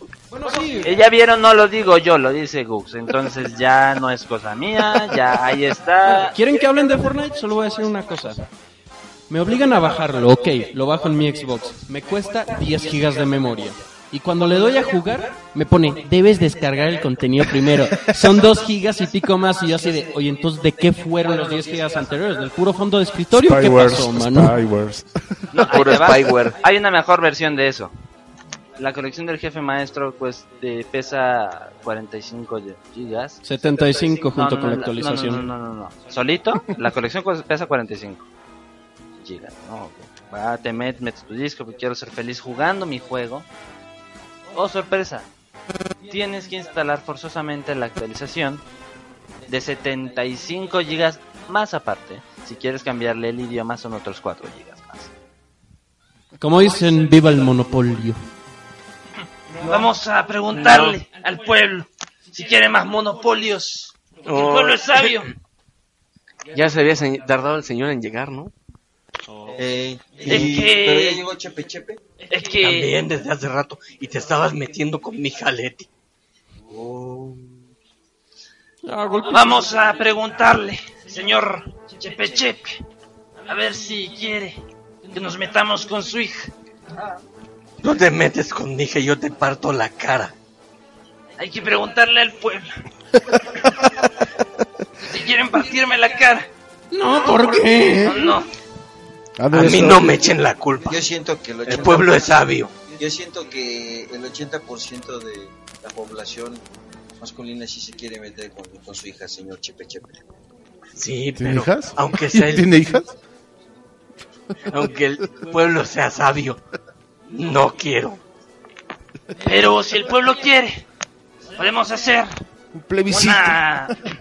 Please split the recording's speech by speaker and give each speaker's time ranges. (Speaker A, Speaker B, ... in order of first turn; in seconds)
Speaker A: 0.3-1.0, 6.0-8.5, 9.3-24.6, 33.4-35.5, 56.4-58.2, 78.8-79.9, 96.9-98.4
Speaker B: 0.8-6.3, 25.5-27.9, 28.8-38.3, 39.2-43.5, 44.5-45.3, 46.1-48.6, 49.5-55.1
Speaker C: 23.3-25.1, 99.4-100.2, 111.4-113.1, 122.7-123.9
Speaker D: 25.6-26.6, 60.5-61.0, 64.2-65.3, 66.5-68.5, 70.3-70.5, 72.6-75.9, 87.8-90.3, 99.5-101.0, 101.7-102.7, 111.0-112.7, 114.7-116.6, 117.3-118.2
Speaker E: 59.6-65.3, 70.2-71.2, 72.3-72.9, 79.3-82.8, 83.5-84.6, 85.1-86.5, 91.4-92.7, 95.0-96.5, 97.2-98.5, 119.4-120.8, 121.5-122.3, 123.1-124.0
Speaker F: 69.6-72.0, 76.7-77.5, 100.9-102.3, 102.9-106.6, 107.2-110.2